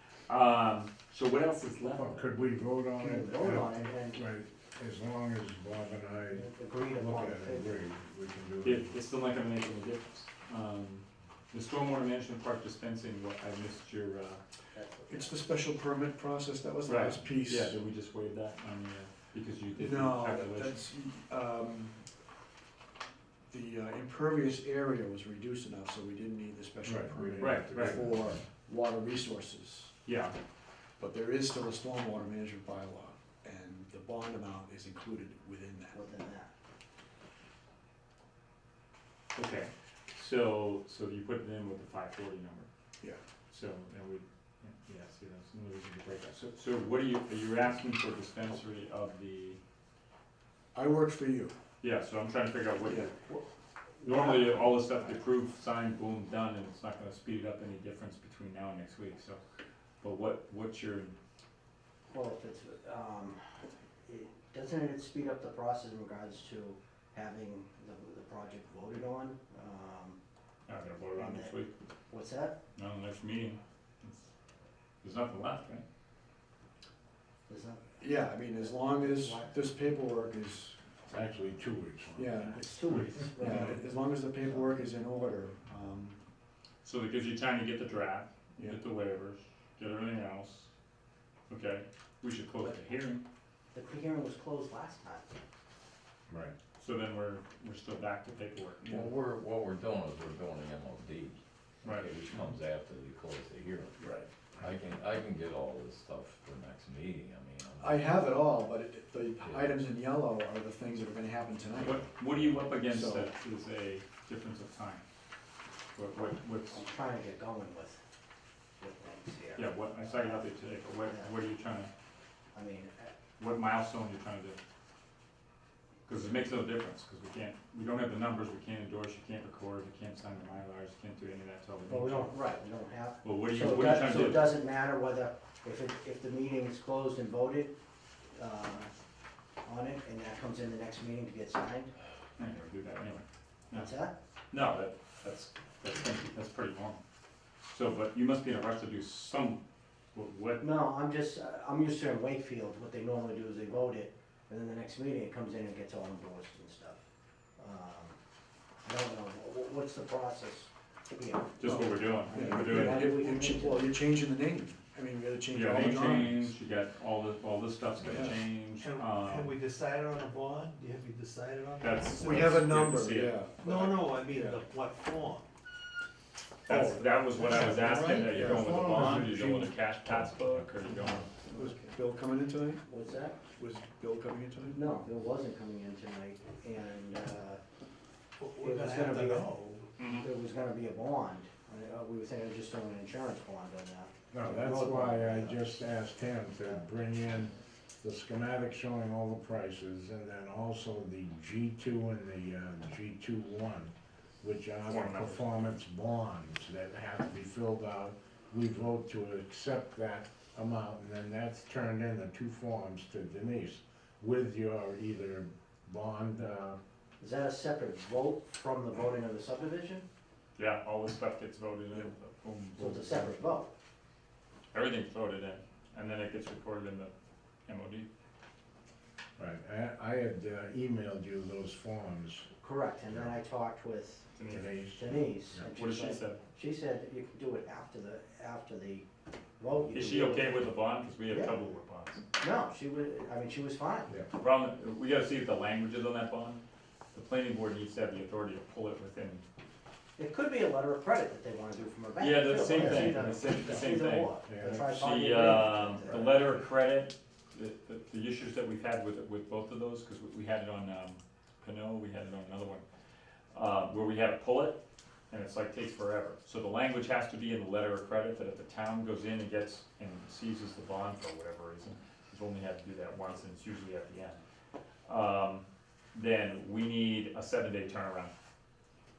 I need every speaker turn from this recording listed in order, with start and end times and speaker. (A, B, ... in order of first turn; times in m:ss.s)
0:00.3-0:02.2 A
0:01.9-0:08.9 B
0:03.0-0:04.2 C
0:06.3-0:07.7 C
0:08.6-0:14.4 A
0:14.7-0:15.3 C
0:15.1-0:17.8 D
0:16.8-0:20.8 A
0:19.7-0:22.1 D
0:23.5-0:30.0 D
0:26.8-0:28.4 B
0:27.4-0:28.0 A
0:30.0-0:30.3 A
0:31.0-0:36.0 D
0:35.9-0:36.5 C
0:39.3-0:42.7 A
0:43.5-0:49.6 A
0:50.7-0:51.5 D
0:51.8-0:53.4 A
0:52.8-0:53.1 D
0:54.0-0:59.4 A
0:54.1-0:55.1 D
1:00.0-1:01.2 A
1:02.1-1:03.4 C
1:04.0-1:10.2 C
1:10.7-1:11.7 A
1:11.2-1:11.5 C
1:12.1-1:12.6 C
1:12.7-1:14.3 A
1:15.0-1:15.8 A
1:17.5-1:18.0 C
1:18.0-1:21.0 D
1:18.9-1:19.5 C
1:21.1-1:23.1 B
1:22.2-1:26.2 D
1:22.6-1:23.9 C
1:26.8-1:30.7 A
1:31.5-1:33.2 A
1:33.7-1:35.2 C
1:36.3-1:36.5 B
1:36.8-1:38.9 A
1:38.8-1:39.1 D
1:38.9-1:44.0 E
1:41.8-1:42.1 A
1:44.0-1:44.3 A
1:44.6-1:48.1 E
1:47.8-1:52.0 D
1:49.4-1:49.8 E
1:51.8-1:55.0 A
1:52.8-1:53.3 D
1:55.9-1:56.8 A
1:56.7-1:58.0 C
1:58.8-2:01.3 C
1:59.6-2:01.9 A
2:02.5-2:03.2 C
2:03.4-2:04.6 A
2:06.0-2:12.3 A
2:11.9-2:17.7 C
2:13.2-2:14.5 A
2:18.3-2:18.9 C
2:19.6-2:21.9 C
2:22.4-2:23.9 A
2:23.7-2:24.1 C
2:24.5-2:27.0 A
2:27.6-2:29.6 A
2:30.1-2:30.7 A
2:30.6-2:37.0 C
2:37.6-2:38.2 C
2:38.8-2:43.9 C
2:41.6-2:43.0 A
2:41.6-2:46.5 D
2:45.5-2:49.5 A
2:48.1-2:48.4 D
2:48.7-2:53.0 F
2:51.8-2:53.4 A
2:52.2-2:54.6 D
2:53.6-2:55.5 F
2:56.7-3:01.3 A
2:56.7-3:02.8 D
2:57.3-2:59.0 F
3:02.9-3:03.4 C
3:03.5-3:05.0 D
3:04.7-3:07.6 C
3:08.4-3:09.9 F
3:08.6-3:09.5 C
3:10.0-3:10.3 A
3:10.2-3:15.7 C
3:14.3-3:36.8 B
3:24.9-3:25.5 A
3:37.2-3:40.0 C
3:40.6-3:43.4 A
3:42.8-3:43.7 C
3:44.7-3:47.1 A
3:47.7-3:48.1 A
3:49.4-3:52.5 B
3:52.6-3:54.3 C
3:54.3-3:54.7 A
3:54.5-3:55.6 B
3:54.9-3:59.0 C
3:55.6-3:56.4 A
3:59.6-4:00.7 C
3:59.9-4:02.2 A
4:01.3-4:01.7 C
4:02.4-4:04.1 C
4:04.4-4:06.6 A
4:07.1-4:09.4 A
4:10.2-4:16.4 C
4:12.2-4:22.8 A
4:12.7-4:13.3 B
4:14.4-4:14.9 B
4:23.5-4:34.4 A
4:35.0-4:38.3 A